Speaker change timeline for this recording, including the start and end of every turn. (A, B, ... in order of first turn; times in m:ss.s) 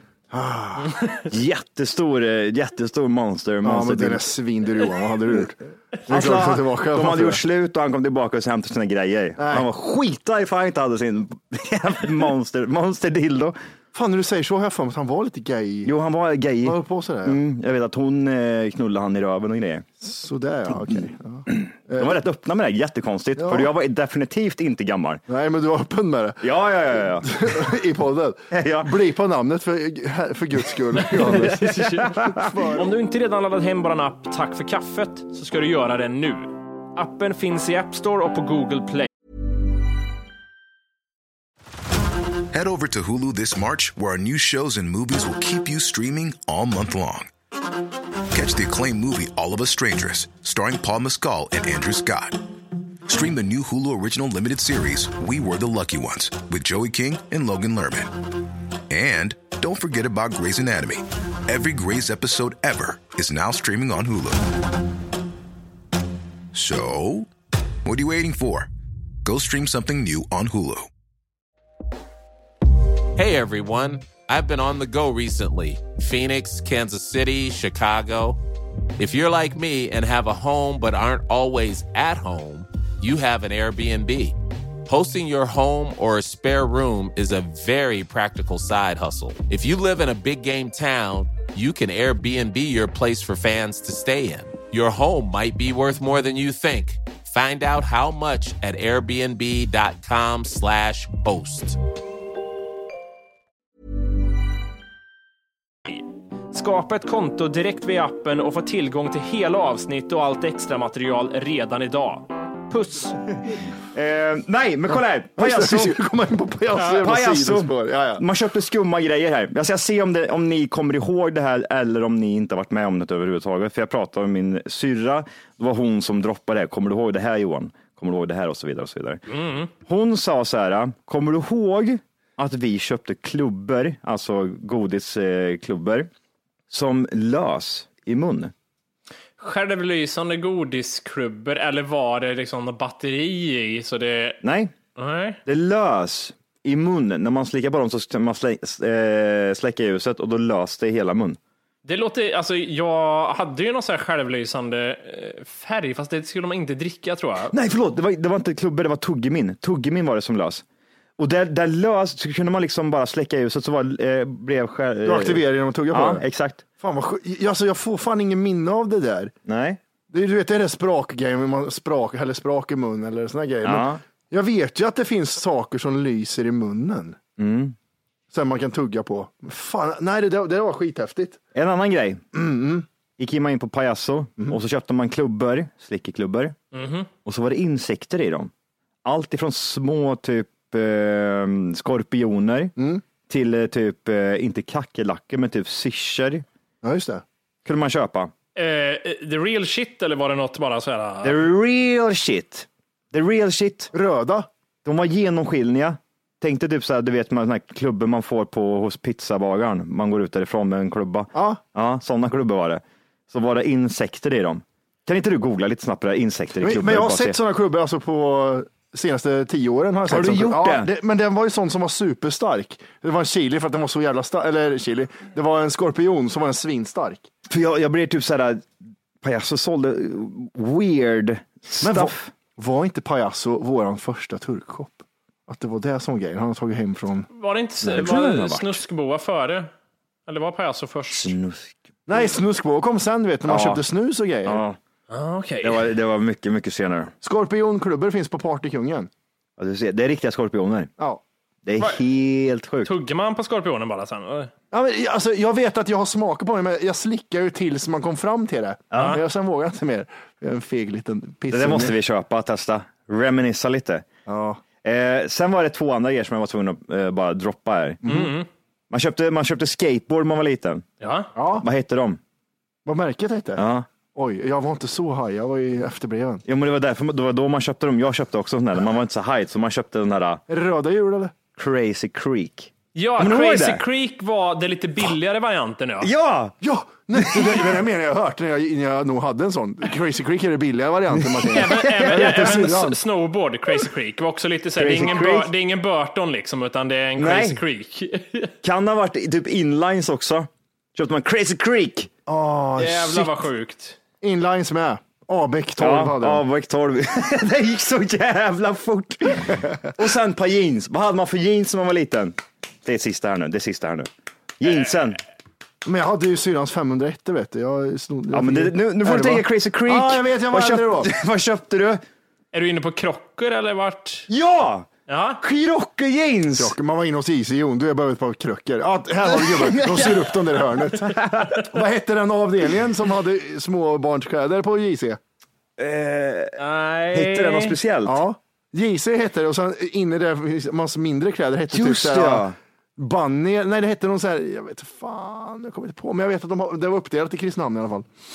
0:00.3-0:01.0 A
0:01.2-0:04.3 B
0:03.6-0:07.4 A
0:06.1-0:13.6 B
0:09.4-0:09.7 A
0:13.9-0:15.9 A
0:15.8-0:19.8 B
0:16.6-0:17.4 A
0:20.0-0:22.2 A
0:21.6-0:25.2 B
0:23.4-0:23.7 A
0:25.3-0:32.9 A
0:26.4-0:27.5 B
0:28.5-0:28.9 B
0:31.3-0:32.2 C
0:32.7-0:39.1 C
0:42.5-0:47.3 D
0:48.3-0:52.4 D
0:53.1-0:58.2 D
0:58.9-1:04.5 D
1:06.5-1:07.3 D
1:07.8-1:08.7 D
1:09.2-1:10.9 D
1:13.2-1:18.4 E
1:19.0-1:41.8 E
1:45.9-1:53.2 C
1:53.9-1:56.0 B
1:55.4-1:58.2 A
1:56.8-2:09.2 B
2:09.3-2:09.7 C
2:09.8-2:16.1 B
2:16.7-2:18.5 B
2:19.4-2:24.4 C
2:24.4-2:24.7 B
2:25.0-2:25.4 C
2:25.4-2:31.4 B
2:31.8-2:37.5 C
2:37.5-2:40.6 B
2:41.2-2:46.6 B
2:45.0-2:46.2 A
2:46.8-2:49.3 A
2:49.4-2:49.8 B
2:50.1-2:57.2 A
2:53.6-2:54.0 B
2:57.4-2:57.8 B
2:58.3-3:01.4 A
3:01.5-3:02.2 B
3:02.3-3:02.8 A
3:03.2-3:06.6 B
3:06.7-3:07.1 C
3:07.2-3:08.5 B
3:09.0-3:12.7 B
3:12.8-3:13.0 A
3:13.3-3:16.4 B
3:16.8-3:17.2 A
3:17.6-3:18.3 B
3:18.6-3:21.4 C
3:21.2-3:23.9 B
3:23.9-3:24.5 A
3:24.8-3:37.4 B
3:31.3-3:31.6 A
3:36.6-3:47.3 A
3:40.0-3:40.9 B
3:47.5-3:48.7 B
3:49.2-3:52.3 B
3:51.8-3:57.3 A
3:57.3-3:59.7 C
3:57.8-3:58.8 B
4:00.3-4:01.3 C
4:01.1-4:02.4 B
4:02.1-4:04.6 A
4:03.4-4:03.8 B
4:04.4-4:04.8 B
4:05.1-4:05.8 C
4:05.6-4:07.1 B
4:07.2-4:09.1 A
4:09.6-4:10.9 B
4:11.6-4:12.9 B
4:12.8-4:14.5 C
4:14.7-4:21.9 A
4:18.9-4:19.2 B
4:18.9-4:19.2 C
4:21.5-4:24.1 B
4:24.2-4:24.6 A
4:24.8-4:28.0 B
4:28.0-4:28.5 C
4:28.0-4:28.3 A
4:28.9-4:30.8 B
4:31.0-4:31.3 C
4:31.3-4:31.6 A
4:31.6-4:32.2 B
4:32.8-4:33.6 A
4:33.6-4:33.9 B
4:34.1-4:36.4 A
4:36.4-4:40.4 B
4:40.5-4:41.3 A
4:41.6-4:43.8 B
4:42.9-4:46.1 C
4:46.0-4:46.6 B
4:46.6-4:53.0 A
4:47.1-4:47.8 B
4:51.1-4:52.7 B
4:51.5-4:58.5 C
4:54.8-4:55.5 B
4:57.2-4:57.6 B
4:58.6-5:02.1 B
5:02.2-5:03.4 A
5:02.8-5:04.0 C
5:04.2-5:06.4 A
5:05.8-5:15.2 B
5:15.8-5:21.1 A
5:18.3-5:22.0 B
5:22.5-5:24.3 C
5:24.3-5:26.7 B
5:25.1-5:25.4 C
5:26.5-5:35.2 A
5:29.2-5:31.6 B
5:35.8-5:36.6 B
5:36.6-5:37.8 C
5:37.1-5:38.2 B
5:38.0-5:42.4 A
5:41.7-5:42.6 B
5:43.0-5:48.1 A